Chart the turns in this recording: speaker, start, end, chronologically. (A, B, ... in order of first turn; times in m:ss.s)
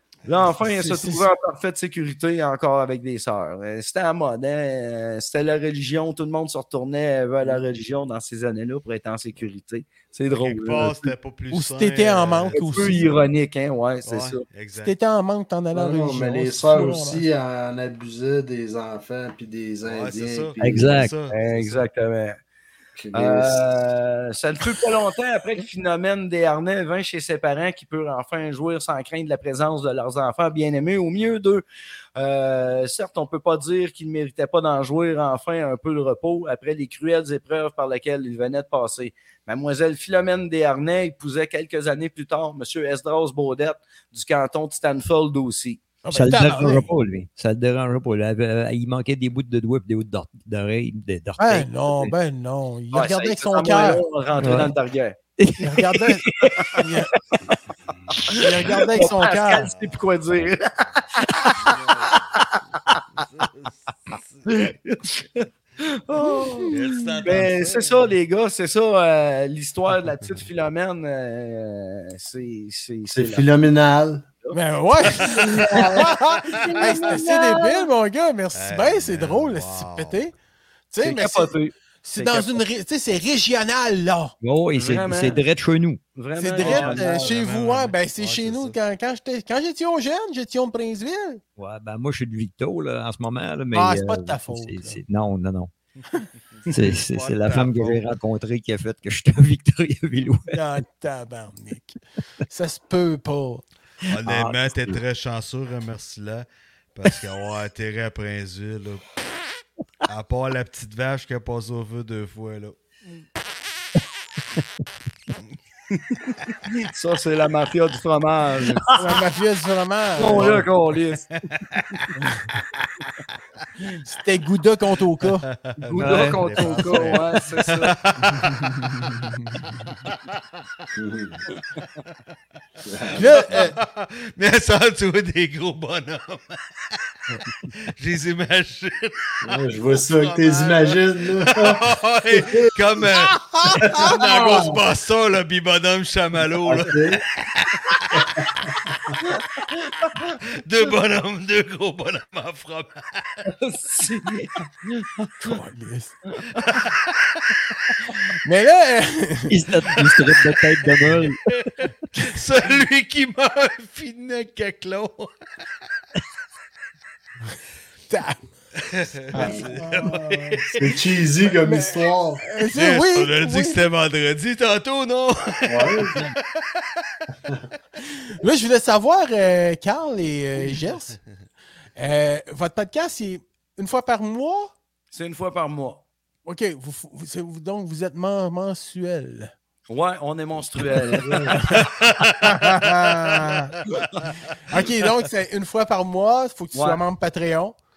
0:00.2-0:11.1 A
0:00.6-0:01.3 B
0:10.3-0:13.1 C
0:11.5-0:13.1 B
0:12.5-0:14.4 A
0:14.0-0:14.9 C
0:14.8-0:17.2 B
0:15.7-0:21.1 D
0:19.9-0:21.9 C
0:20.6-0:21.1 E
0:21.3-0:22.4 A
0:23.0-0:23.6 D
0:23.1-0:31.6 A
0:32.2-0:45.8 A
0:46.0-0:46.9 B
0:46.1-0:52.1 E
0:51.4-0:54.0 B
0:52.9-0:55.2 A
0:54.4-0:54.7 E
0:55.4-0:56.8 E
0:55.6-0:57.1 B
0:56.4-0:56.8 A
0:58.3-1:03.0 A
0:58.3-0:59.7 B
0:59.6-1:00.0 C
1:01.5-1:04.4 C
1:04.4-1:13.5 A
1:06.4-1:07.1 B
1:06.7-1:08.1 C
1:13.1-1:14.2 D
1:14.5-1:20.3 B
1:15.2-1:17.9 A
1:15.5-1:16.1 D
1:18.5-1:20.2 C
1:20.9-1:24.3 B
1:21.0-1:22.6 A
1:24.4-1:26.0 E
1:24.7-1:25.4 A
1:26.1-1:27.3 A
1:26.4-1:31.4 B
1:26.6-1:28.8 C
1:31.6-1:35.7 E
1:33.7-1:35.0 B
1:36.6-1:38.1 C
1:36.7-1:40.6 E
1:40.5-1:43.6 B
1:44.1-1:45.0 E
1:44.1-1:49.0 C
1:50.1-1:52.8 C
1:55.9-1:59.0 A
1:58.7-1:59.0 E
1:58.9-2:00.6 B
2:00.2-2:01.3 A
2:00.3-2:00.7 C
2:01.5-2:02.8 C
2:04.0-2:05.4 B
2:05.2-2:08.8 C
2:05.9-2:08.0 A
2:06.0-2:06.4 E
2:08.9-2:09.7 B
2:09.9-2:10.3 C
2:11.0-2:11.4 D
2:12.9-2:13.2 D
2:13.1-2:16.6 C
2:13.2-2:13.7 B
2:18.0-2:19.5 C
2:19.4-2:23.0 D
2:20.1-2:29.4 C
2:23.5-2:24.0 B
2:23.8-2:24.8 D
2:24.2-2:24.6 A
2:26.6-2:27.2 D
2:28.1-2:28.6 D
2:30.2-2:33.5 C
2:33.4-2:35.1 A
2:35.4-2:36.2 B
2:36.6-2:37.5 C
2:38.4-2:39.5 B
2:39.5-2:41.4 E
2:42.1-2:45.3 C
2:48.1-2:48.4 B
2:48.8-2:50.9 C
2:49.3-2:50.1 B
2:49.3-2:52.4 D
2:51.6-2:53.8 B
2:52.7-2:57.0 C
2:55.6-2:56.2 D
2:58.3-3:01.2 B
3:02.0-3:04.7 B
3:05.1-3:06.0 A
3:06.4-3:09.5 B
3:09.9-3:11.6 A
3:11.2-3:11.6 D
3:11.4-3:11.8 B
3:11.7-3:14.3 C
3:12.4-3:13.7 B
3:13.9-3:14.2 A
3:14.7-3:17.8 B
3:16.7-3:17.0 A